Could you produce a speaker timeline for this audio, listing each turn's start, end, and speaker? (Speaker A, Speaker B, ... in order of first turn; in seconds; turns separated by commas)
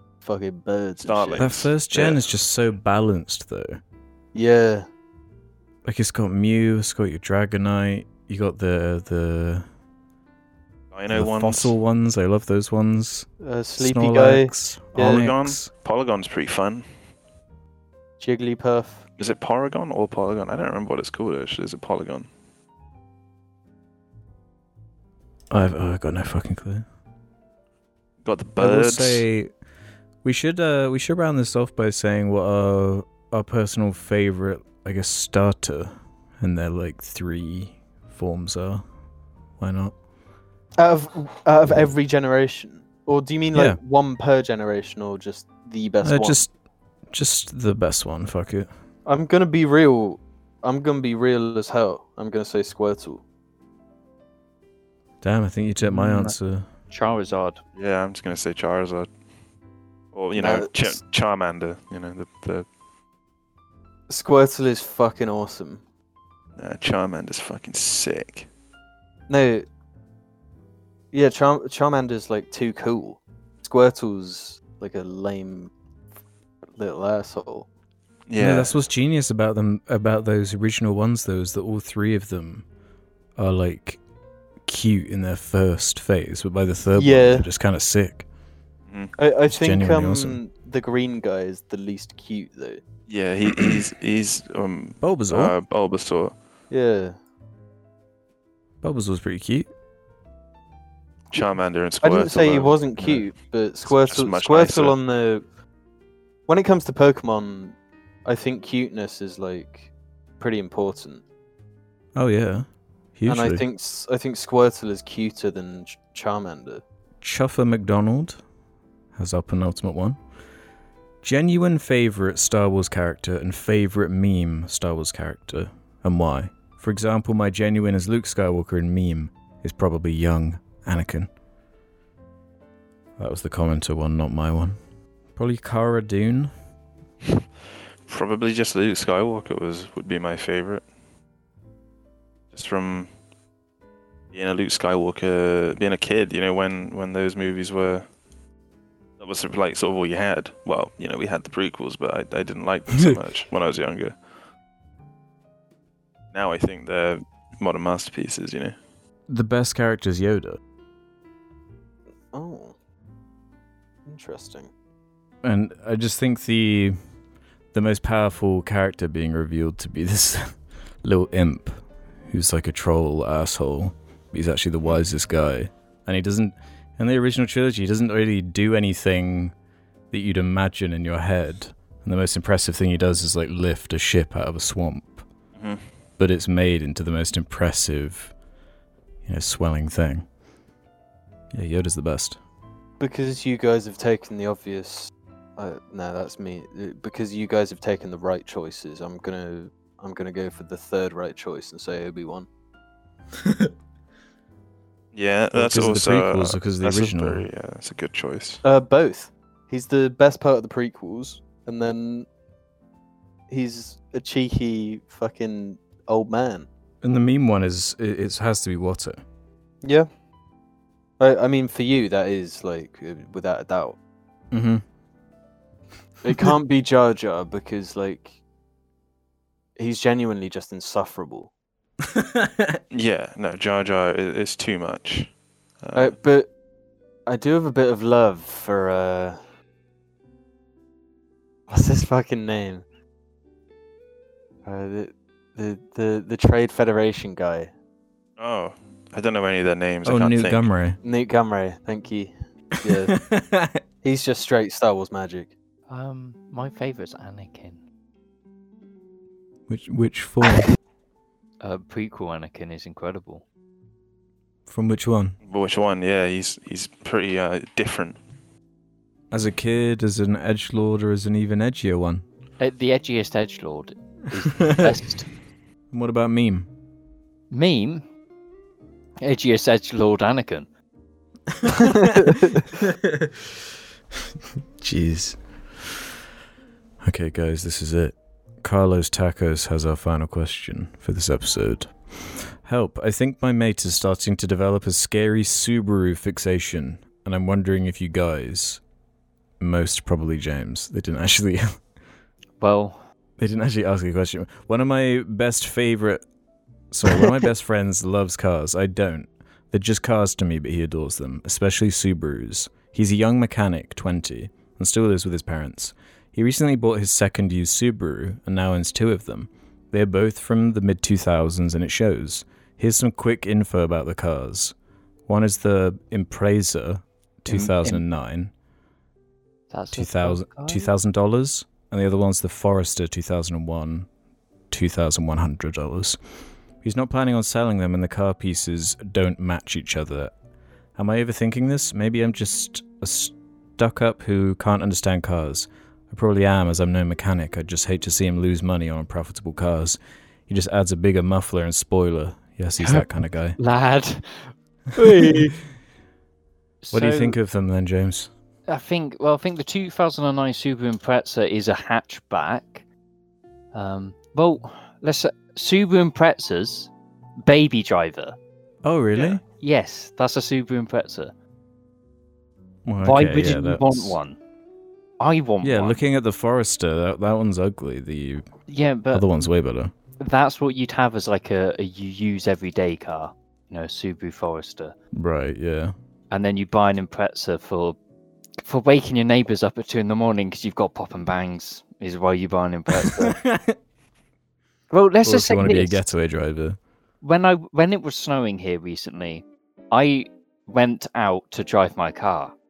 Speaker A: 0.2-1.5, Speaker B: 1.0-2.2, Speaker C: 1.4-3.8, Speaker A: 4.3-4.8, Speaker C: 5.8-9.6, Speaker B: 10.9-11.7, Speaker C: 11.1-15.7, Speaker A: 13.4-15.2, Speaker B: 14.9-16.9, Speaker A: 18.2-19.0, Speaker B: 19.2-22.3, Speaker C: 25.5-26.8, Speaker B: 28.2-29.2, Speaker C: 28.6-29.5, Speaker C: 30.2-38.8, Speaker C: 39.6-39.9, Speaker A: 40.8-46.4, Speaker C: 43.5-43.8, Speaker C: 46.0-46.5, Speaker C: 47.1-48.7, Speaker A: 49.0-53.2, Speaker C: 55.2-56.7, Speaker D: 55.8-56.4, Speaker D: 56.9-57.6, Speaker B: 57.8-59.1, Speaker B: 60.1-62.6, Speaker A: 60.4-61.0, Speaker A: 64.1-65.8, Speaker B: 66.6-68.5, Speaker A: 69.3-69.7, Speaker A: 71.1-75.7, Speaker A: 76.8-77.7, Speaker B: 78.3-78.7, Speaker C: 78.4-82.6, Speaker C: 83.3-84.0, Speaker C: 84.6-88.2, Speaker A: 87.0-87.5, Speaker B: 88.9-89.1, Speaker A: 89.2-92.8, Speaker C: 89.4-90.4, Speaker B: 93.1-96.3, Speaker C: 95.0-95.5, Speaker A: 96.7-97.2, Speaker C: 98.8-99.7, Speaker B: 101.3-103.2, Speaker A: 102.0-105.4, Speaker B: 103.8-105.0, Speaker A: 106.5-111.2, Speaker C: 112.2-113.6, Speaker A: 113.3-116.8, Speaker C: 117.2-118.4, Speaker C: 119.1-120.2, Speaker C: 121.2-131.3, Speaker C: 133.2-134.8, Speaker C: 135.3-136.5, Speaker B: 138.1-140.8, Speaker B: 142.5-143.1, Speaker B: 144.3-148.0, Speaker B: 149.2-154.1, Speaker B: 156.3-158.8, Speaker C: 159.3-160.6, Speaker A: 162.3-162.7, Speaker A: 164.1-164.7, Speaker C: 165.4-166.9, Speaker C: 167.7-179.5, Speaker C: 180.1-185.2, Speaker B: 185.6-185.8, Speaker C: 186.2-188.3, Speaker C: 189.2-190.3, Speaker C: 191.5-192.4, Speaker A: 193.0-202.5, Speaker B: 205.1-208.6, Speaker C: 205.5-207.4, Speaker A: 208.6-212.3, Speaker A: 213.5-216.7, Speaker C: 217.0-219.2, Speaker A: 219.8-220.1, Speaker A: 221.2-224.0, Speaker C: 224.5-224.8, Speaker A: 226.2-228.3, Speaker A: 229.8-231.5, Speaker C: 232.0-232.8, Speaker B: 232.9-235.3, Speaker B: 235.8-236.2, Speaker A: 235.9-236.5, Speaker A: 237.2-239.4, Speaker A: 241.7-242.8, Speaker A: 244.6-247.7, Speaker B: 248.4-250.7, Speaker C: 250.0-251.0, Speaker A: 251.0-253.2, Speaker C: 253.1-253.8, Speaker A: 254.0-255.5, Speaker D: 255.9-257.8, Speaker C: 259.7-260.7, Speaker D: 261.6-263.4, Speaker C: 264.7-265.3, Speaker B: 265.4-268.2, Speaker C: 269.3-272.2, Speaker D: 272.6-275.3, Speaker C: 274.6-274.9, Speaker C: 275.9-276.7, Speaker D: 277.5-278.0, Speaker D: 279.2-280.7, Speaker C: 281.5-283.5, Speaker A: 281.9-282.6, Speaker C: 284.8-285.4, Speaker C: 287.0-298.8, Speaker C: 299.6-301.7, Speaker D: 302.6-303.0, Speaker C: 303.4-306.2, Speaker C: 306.9-324.7, Speaker C: 325.3-328.5, Speaker D: 327.5-328.0, Speaker D: 329.7-330.9, Speaker C: 329.9-334.1, Speaker C: 334.7-336.2, Speaker C: 336.8-340.3, Speaker C: 340.9-353.6, Speaker D: 352.8-354.5, Speaker A: 354.9-355.6, Speaker D: 356.8-357.4, Speaker C: 356.9-358.3, Speaker D: 358.7-362.8, Speaker D: 363.7-366.9, Speaker D: 367.4-368.4, Speaker C: 368.8-369.4, Speaker D: 369.6-371.3, Speaker C: 372.9-374.2, Speaker D: 373.0-374.4, Speaker D: 375.2-376.0, Speaker C: 375.6-378.5, Speaker D: 378.7-379.3, Speaker C: 379.1-379.9, Speaker D: 380.2-384.9, Speaker C: 385.1-385.9, Speaker D: 386.3-388.0, Speaker D: 388.6-393.4, Speaker C: 393.0-393.8, Speaker D: 394.9-396.1, Speaker C: 395.2-396.8, Speaker D: 397.2-402.5